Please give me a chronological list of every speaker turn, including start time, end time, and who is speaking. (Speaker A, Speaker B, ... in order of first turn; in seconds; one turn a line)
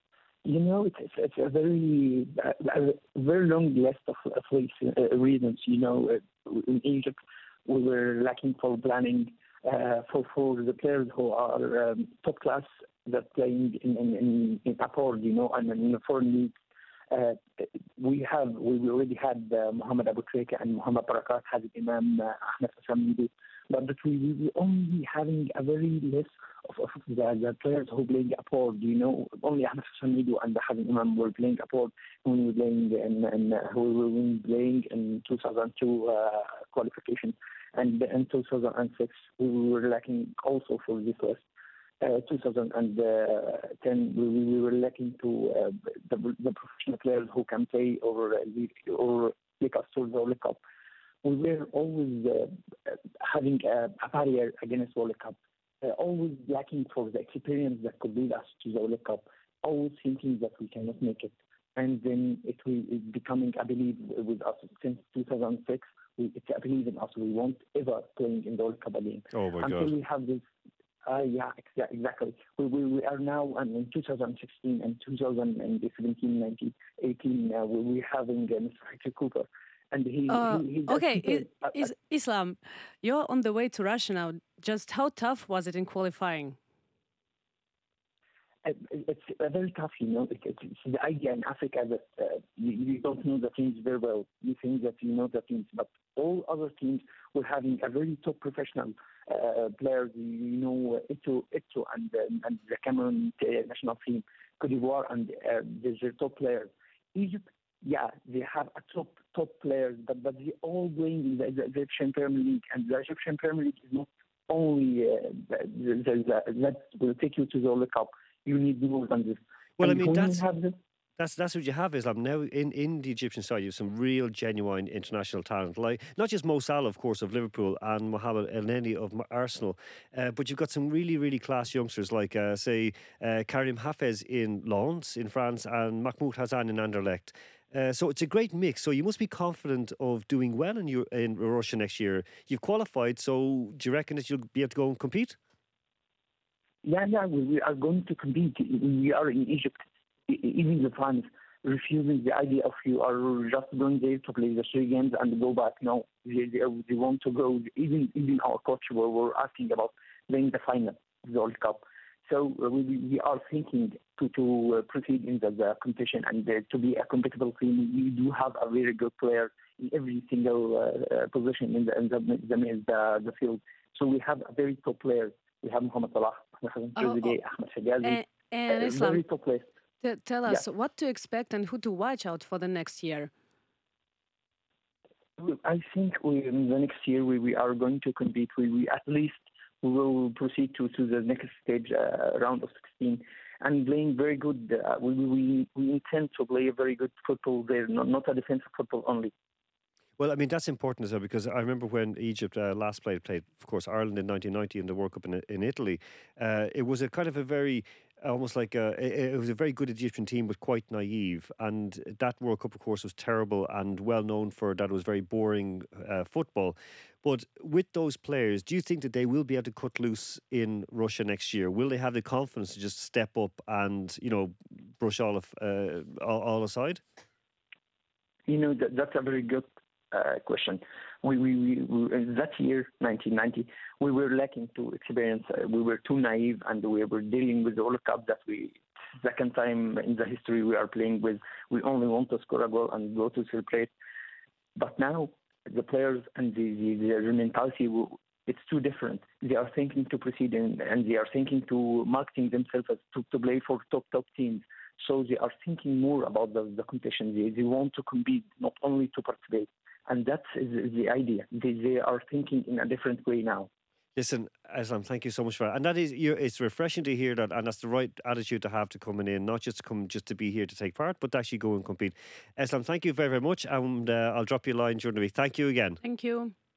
Speaker A: 0.4-16.5
Speaker A: 17.1-41.4
Speaker A: 42.0-50.6
Speaker A: 51.2-70.4
Speaker B: 69.3-69.9
Speaker A: 71.0-81.8
Speaker C: 80.3-86.6
Speaker A: 88.6-120.7
Speaker B: 119.8-120.5
Speaker B: 121.2-145.4
Speaker A: 146.8-179.7
Speaker C: 177.0-177.3
Speaker C: 178.0-179.2
Speaker C: 180.0-183.3
Speaker A: 185.4-199.3
Speaker B: 200.2-227.0
Speaker A: 228.5-243.9
Speaker A: 244.8-263.7
Speaker B: 264.1-276.0
Speaker C: 276.0-276.5